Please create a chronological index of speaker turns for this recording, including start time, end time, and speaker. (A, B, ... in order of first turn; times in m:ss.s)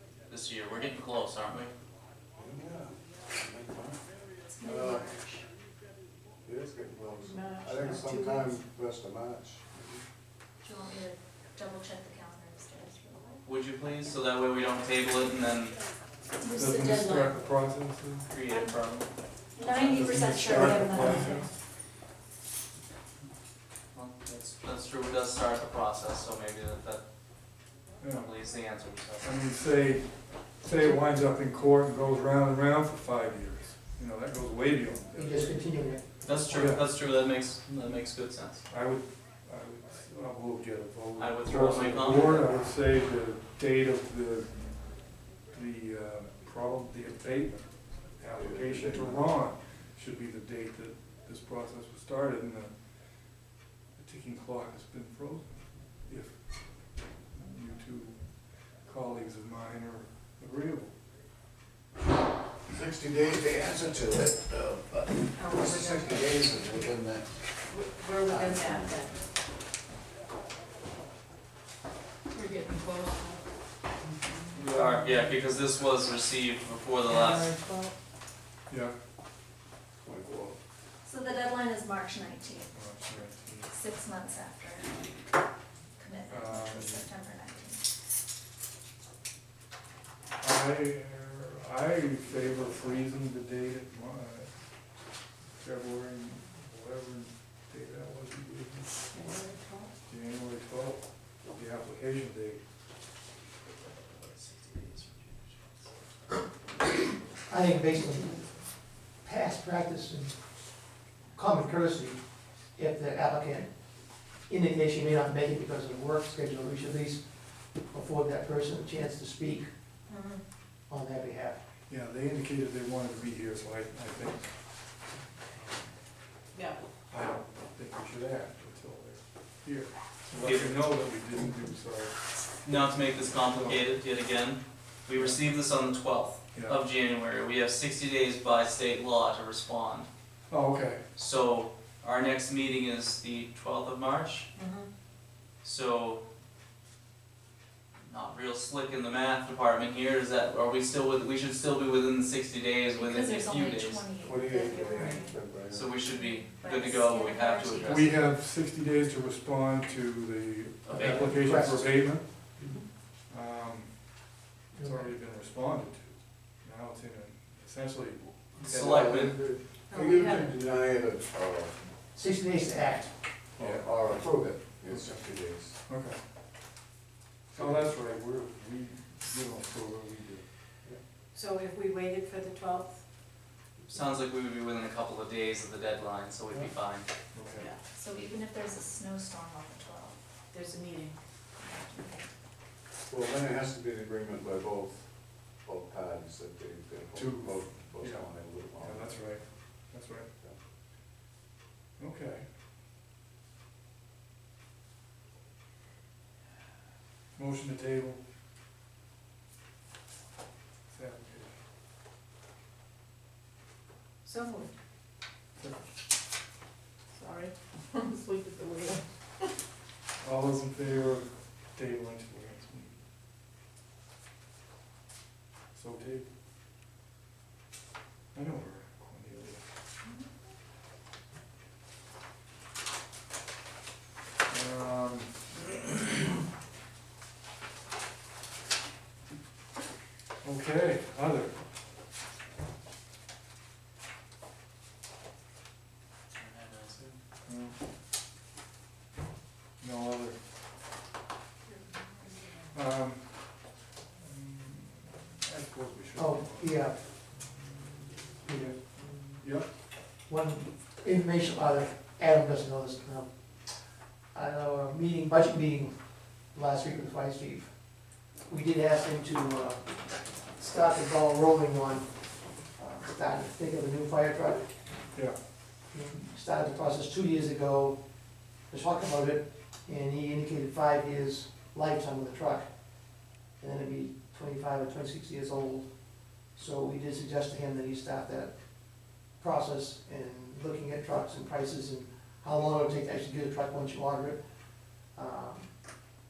0:00.3-0:01.7 A
0:02.4-0:05.1 B
0:04.5-0:05.5 C
0:06.4-0:10.0 B
0:07.2-0:08.6 D
0:10.6-0:13.4 C
0:13.4-0:15.8 A
0:16.5-0:17.4 D
0:16.5-0:18.3 E
0:18.2-0:19.1 A
0:18.5-0:18.8 C
0:19.6-0:21.4 C
0:19.7-0:21.5 E
0:20.8-0:21.1 D
0:23.9-0:27.0 A
0:28.0-0:28.3 E
0:28.1-0:29.3 A
0:29.2-0:35.8 E
0:35.2-0:36.4 F
0:36.2-0:38.6 A
0:36.5-0:36.8 E
0:38.7-1:01.0 E
0:41.2-0:42.5 A
0:48.3-0:49.2 B
1:02.7-1:07.6 B
1:05.3-1:06.9 D
1:07.7-1:09.2 D
1:08.2-1:09.0 B
1:12.3-1:13.4 D
1:14.5-1:17.5 A
1:17.1-1:17.9 D
1:18.7-1:19.0 E
1:20.1-1:20.6 B
1:21.0-1:22.7 C
1:22.7-1:23.7 E
1:23.7-1:25.1 C
1:26.0-1:27.8 C
1:26.3-1:27.1 E
1:30.4-1:34.6 E
1:35.5-1:39.0 E
1:39.1-1:39.9 D
1:40.1-1:42.6 E
1:44.1-1:45.9 A
1:47.5-1:59.7 F
2:00.1-2:00.4 D
2:00.9-2:01.6 F
2:01.9-2:06.0 E
2:06.5-2:06.8 D
2:07.1-2:13.9 E
2:10.3-2:10.9 A
2:12.6-2:20.1 A
2:15.1-2:15.4 E
2:20.5-2:21.0 E
2:21.2-2:24.5 A
2:24.6-2:24.9 D
2:25.6-2:26.2 A
2:28.1-2:34.0 A
2:32.9-2:38.1 C
2:34.2-2:36.0 B
2:35.7-2:38.1 A
2:37.8-2:42.6 E
2:40.8-2:41.4 A
2:41.0-2:42.2 F
2:42.6-2:42.8 B
2:43.3-2:48.4 E
2:44.7-2:45.1 F
2:48.6-2:51.8 B
2:48.6-2:49.4 A
2:49.9-2:50.5 D
2:52.1-2:53.2 F
2:53.6-2:55.8 B
2:53.6-2:54.2 E
2:54.8-2:56.2 E
2:57.5-3:00.5 E
2:57.6-2:57.9 B
3:01.3-3:03.0 D
3:03.9-3:07.1 A
3:07.3-3:07.7 E
3:07.9-3:10.2 C
3:10.5-3:11.2 D
3:11.6-3:12.3 C
3:13.1-3:19.2 B
3:17.2-3:20.3 E
3:22.0-3:22.5 E
3:27.4-3:28.2 E
3:30.9-3:31.6 E
3:34.2-3:34.7 D
3:35.6-3:35.8 E
3:37.2-3:39.0 D
3:40.2-3:43.0 E
3:45.7-3:46.3 E
3:48.3-3:49.6 E
3:54.5-3:55.6 E
4:00.4-4:01.6 E
4:06.3-4:07.2 A
4:07.5-4:07.8 E
4:09.8-4:10.4 E
4:12.7-4:19.8 E
4:16.2-4:17.0 F
4:18.4-4:19.3 F
4:20.3-4:30.0 F
4:30.5-4:34.7 F
4:35.9-4:38.0 F
4:38.6-4:42.7 F
4:43.6-4:54.4 F
4:55.0-4:55.7 F